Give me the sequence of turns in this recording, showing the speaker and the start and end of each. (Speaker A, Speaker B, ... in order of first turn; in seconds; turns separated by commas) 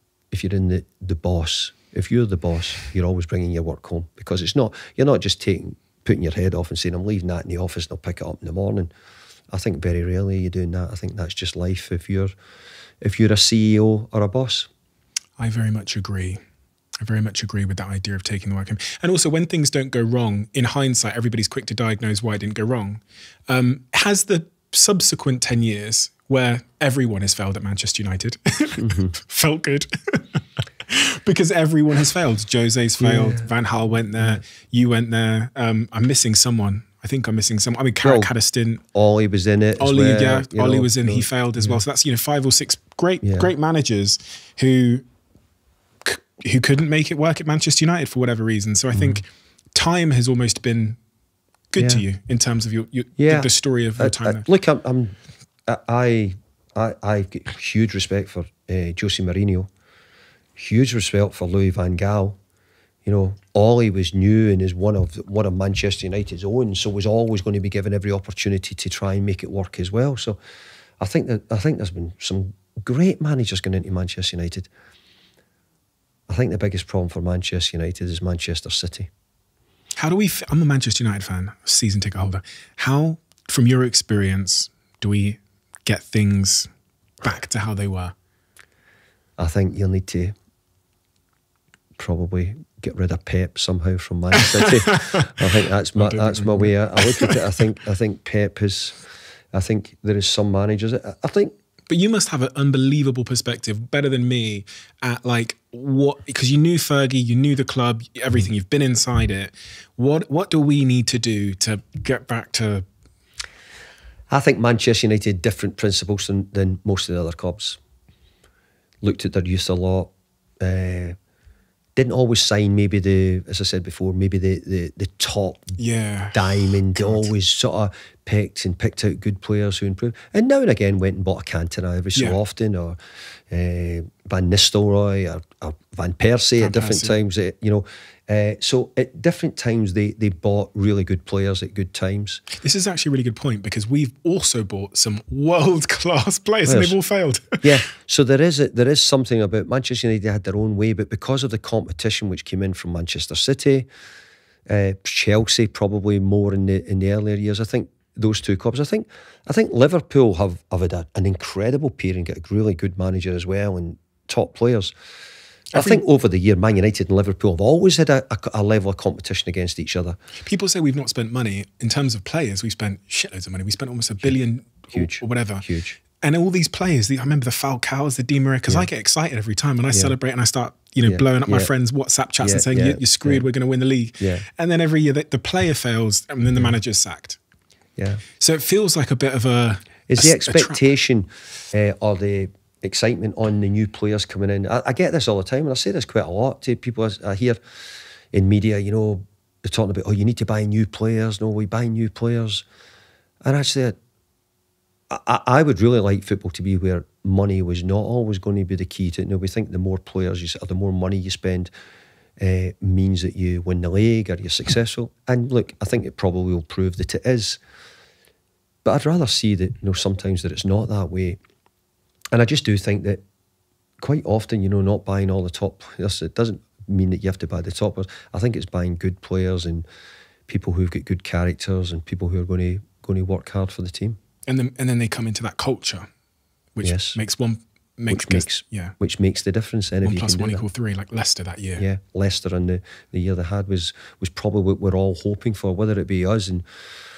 Speaker A: 0.3-8.9, Speaker A: 9.5-12.3, Speaker A: 13.0-14.7, Speaker B: 15.4-16.4, Speaker B: 17.0-38.8, Speaker A: 28.8-29.1, Speaker A: 33.0-33.5, Speaker A: 38.0-38.3, Speaker A: 38.9-41.8, Speaker B: 39.8-45.0, Speaker A: 43.2-43.5, Speaker B: 46.0-51.0, Speaker A: 48.9-49.2, Speaker B: 51.7-54.4, Speaker A: 51.8-52.0, Speaker A: 53.2-55.1, Speaker A: 55.7-59.7, Speaker A: 60.5-62.4, Speaker A: 63.0-70.4, Speaker A: 71.0-74.7, Speaker A: 76.3-79.1, Speaker B: 80.0-86.7, Speaker B: 87.2-88.1, Speaker A: 89.4-90.3, Speaker A: 92.0-99.0, Speaker B: 94.4-95.4, Speaker B: 96.0-97.4, Speaker A: 99.5-101.5, Speaker B: 101.9-112.8, Speaker A: 114.3-117.8, Speaker A: 119.0-121.2, Speaker A: 122.0-125.8, Speaker B: 125.8-127.3, Speaker A: 126.3-133.0, Speaker A: 133.5-142.4, Speaker B: 136.6-137.1, Speaker B: 142.6-147.7, Speaker A: 146.7-146.9, Speaker A: 147.6-153.9, Speaker A: 154.7-164.9, Speaker B: 165.7-166.0, Speaker A: 165.7-170.2, Speaker B: 170.4-175.6, Speaker A: 174.9-176.0, Speaker B: 176.2-187.4, Speaker A: 181.0-181.7, Speaker A: 182.4-183.4, Speaker A: 184.2-184.4, Speaker A: 188.0-188.2, Speaker B: 188.4-190.9, Speaker A: 190.1-197.6, Speaker A: 198.3-202.6, Speaker A: 203.4-203.9, Speaker A: 205.1-211.7, Speaker A: 212.4-217.6, Speaker A: 218.8-221.4, Speaker A: 222.3-223.2, Speaker A: 224.0-229.8, Speaker A: 230.5-234.2, Speaker B: 234.5-236.1, Speaker B: 236.7-238.9, Speaker A: 236.8-237.2, Speaker A: 238.1-240.6, Speaker B: 240.0-241.8, Speaker A: 241.8-246.6